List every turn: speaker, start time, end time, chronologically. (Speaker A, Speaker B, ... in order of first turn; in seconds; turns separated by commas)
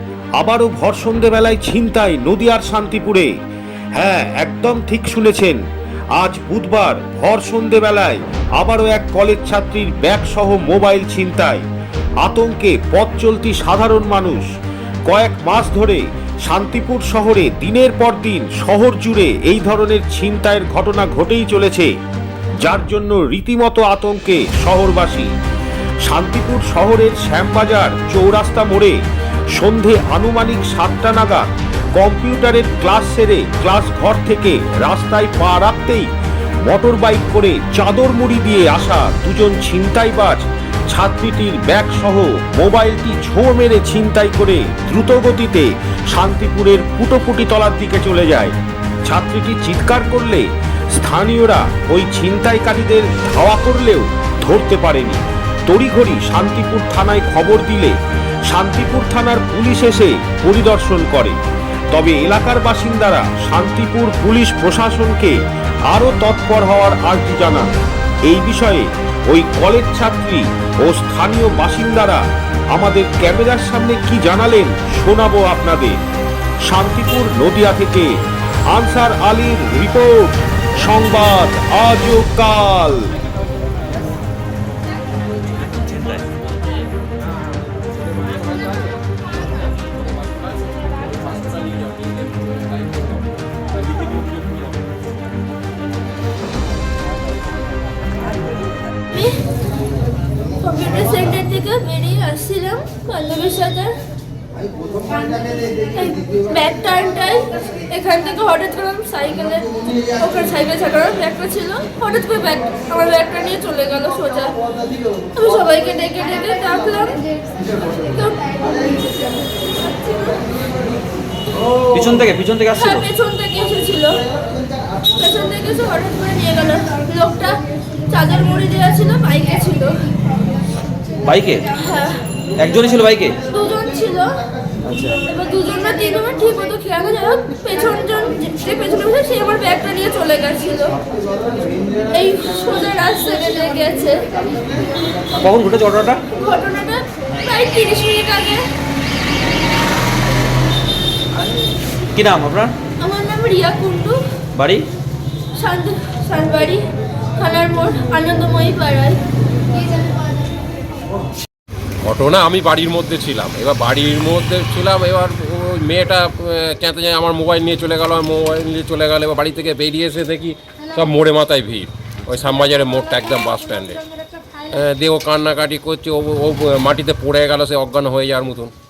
Speaker A: 0.4-3.3, Speaker A: 3.9-5.6, Speaker A: 6.1-11.6, Speaker A: 12.2-14.5, Speaker A: 15.1-21.9, Speaker A: 22.6-25.3, Speaker A: 26.0-28.9, Speaker A: 29.5-36.1, Speaker A: 36.6-57.9, Speaker A: 58.5-61.4, Speaker A: 61.9-65.3, Speaker A: 65.9-67.7, Speaker A: 68.2-72.2, Speaker A: 72.7-76.0, Speaker A: 76.7-78.1, Speaker A: 78.7-83.0, Speaker B: 99.1-99.4, Speaker B: 100.6-103.9, Speaker B: 105.1-114.5, Speaker B: 115.3-117.2, Speaker B: 117.9-120.4, Speaker C: 121.7-123.1, Speaker B: 122.8-124.2, Speaker B: 125.1-127.5, Speaker B: 128.1-129.9, Speaker C: 131.2-131.7, Speaker B: 131.8-132.2, Speaker C: 132.6-133.4, Speaker B: 133.5-134.4, Speaker C: 134.8-135.2, Speaker B: 135.3-140.9, Speaker B: 142.1-144.3, Speaker C: 145.3-146.2, Speaker B: 146.3-148.6, Speaker C: 152.1-152.7, Speaker B: 153.0-154.2, Speaker C: 154.5-154.9, Speaker B: 155.5-156.8, Speaker B: 157.3-159.2, Speaker D: 162.0-174.0, Speaker D: 174.7-178.7